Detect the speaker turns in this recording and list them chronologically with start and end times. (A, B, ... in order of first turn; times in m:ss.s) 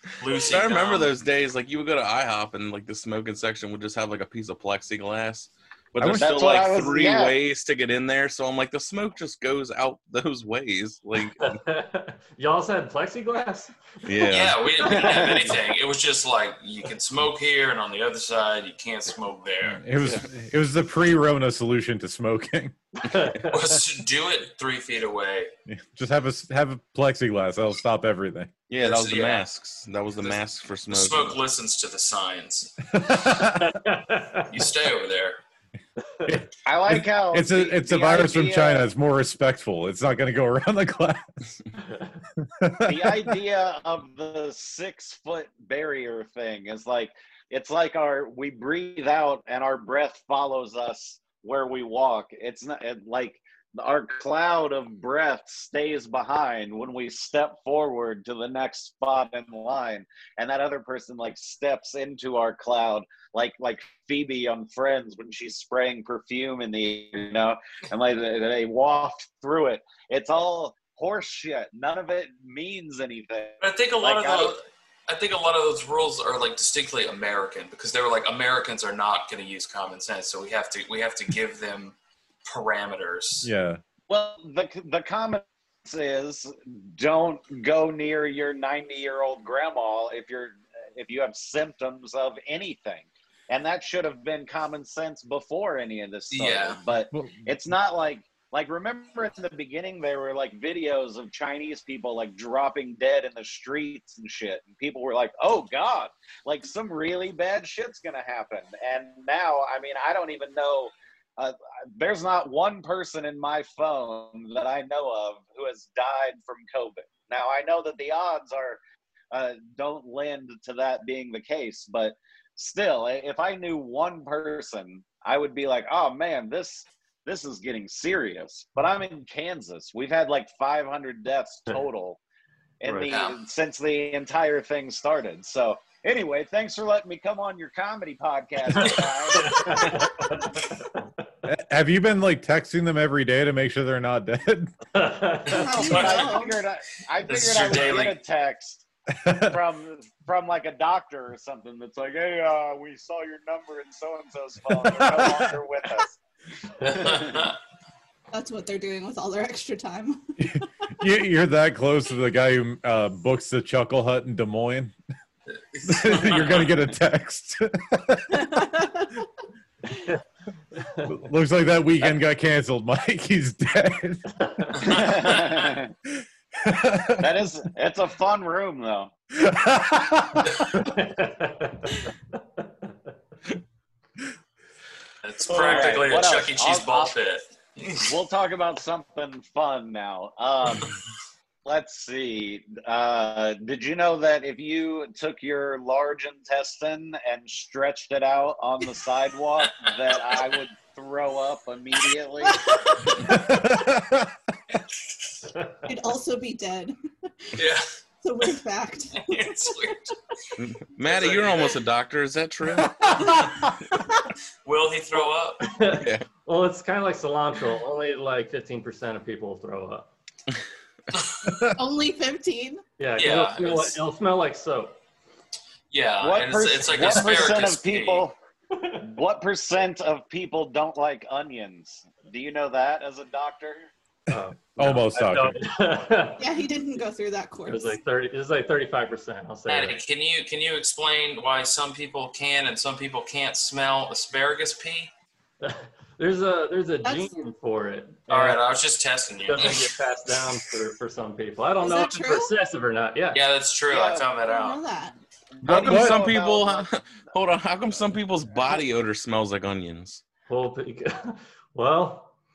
0:00.2-0:01.1 A
0:00.4-0:11.6 B
0:06.0-0:06.4 C
0:06.1-0:07.4 D
0:11.4-0:14.5 E
0:14.1-0:14.7 B
0:14.3-0:19.8 A
0:14.8-0:15.6 D
0:19.7-0:22.8 C
0:23.0-0:23.6 E
0:23.5-0:25.5 A
0:25.7-0:28.5 C
0:28.7-0:31.4 B
0:28.8-0:29.5 A
0:30.2-0:32.9 A
0:33.0-0:33.7 C
0:33.6-0:34.5 E
0:34.5-0:35.4 A
0:36.1-0:36.4 E
0:36.2-0:41.4 C
0:36.6-0:38.9 D
0:42.4-0:43.4 C
0:42.8-1:14.6 D
1:13.6-1:23.5 A
1:23.4-1:23.8 C
1:24.1-1:58.8 D
1:36.3-1:36.8 A
1:37.1-1:37.5 C
1:59.3-2:12.2 D
2:12.8-2:20.0 D
2:13.0-2:13.4 A
2:18.8-2:21.1 E
2:18.8-2:19.6 A
2:21.5-2:24.7 C
2:24.9-2:25.8 E
2:25.5-2:26.6 F
2:25.5-2:26.6 A
2:25.6-2:36.2 D
2:27.2-2:28.2 A
2:29.2-2:29.6 C
2:34.8-2:35.5 C
2:36.8-2:37.5 D
2:36.8-2:37.6 A
2:38.3-2:40.3 F
2:40.4-2:44.9 C
2:45.8-2:46.8 A
2:45.8-2:48.6 C
2:48.3-2:49.2 F
2:50.8-2:51.1 E
2:51.0-2:54.3 C
2:54.4-2:54.8 E
2:54.8-2:55.7 A
2:54.8-2:55.9 D
2:56.2-2:57.3 C
2:57.2-2:59.1 D
2:59.4-3:00.9 C
3:00.8-3:02.9 E
3:05.2-3:08.1 A
3:05.5-3:07.1 D
3:08.0-3:11.0 D
3:11.6-3:22.7 D
3:19.7-3:20.6 A
3:22.5-3:23.7 F
3:23.2-3:24.3 C
3:25.4-3:25.9 E
3:25.9-3:27.0 F
3:27.5-3:27.9 A
3:28.2-3:30.0 F
3:29.1-3:30.2 A
3:30.6-3:33.4 B
3:31.0-3:31.8 A
3:32.9-3:33.3 C
3:33.2-3:34.2 F
3:34.6-3:35.7 A
3:35.6-3:40.1 E
3:35.9-3:36.2 B
3:41.1-3:41.5 A
3:41.7-3:42.8 F
3:43.0-3:45.0 E
3:43.2-3:44.0 A
3:45.9-3:48.3 A
3:46.2-3:48.3 D
3:49.0-3:53.9 D
3:54.3-3:56.5 E
3:54.8-3:55.6 C
3:56.4-3:58.0 F
3:57.7-4:00.0 E
3:59.7-4:05.1 A
4:05.6-4:08.6 E
4:07.0-4:07.3 F
4:08.3-4:09.9 A
4:09.4-4:13.4 E
4:11.8-4:12.5 F
4:13.3-4:14.8 A
4:13.9-4:14.3 D
4:14.4-4:15.2 F
4:15.6-4:16.9 D
4:15.6-4:16.2 C
4:15.6-4:20.2 B
4:20.5-4:22.3 E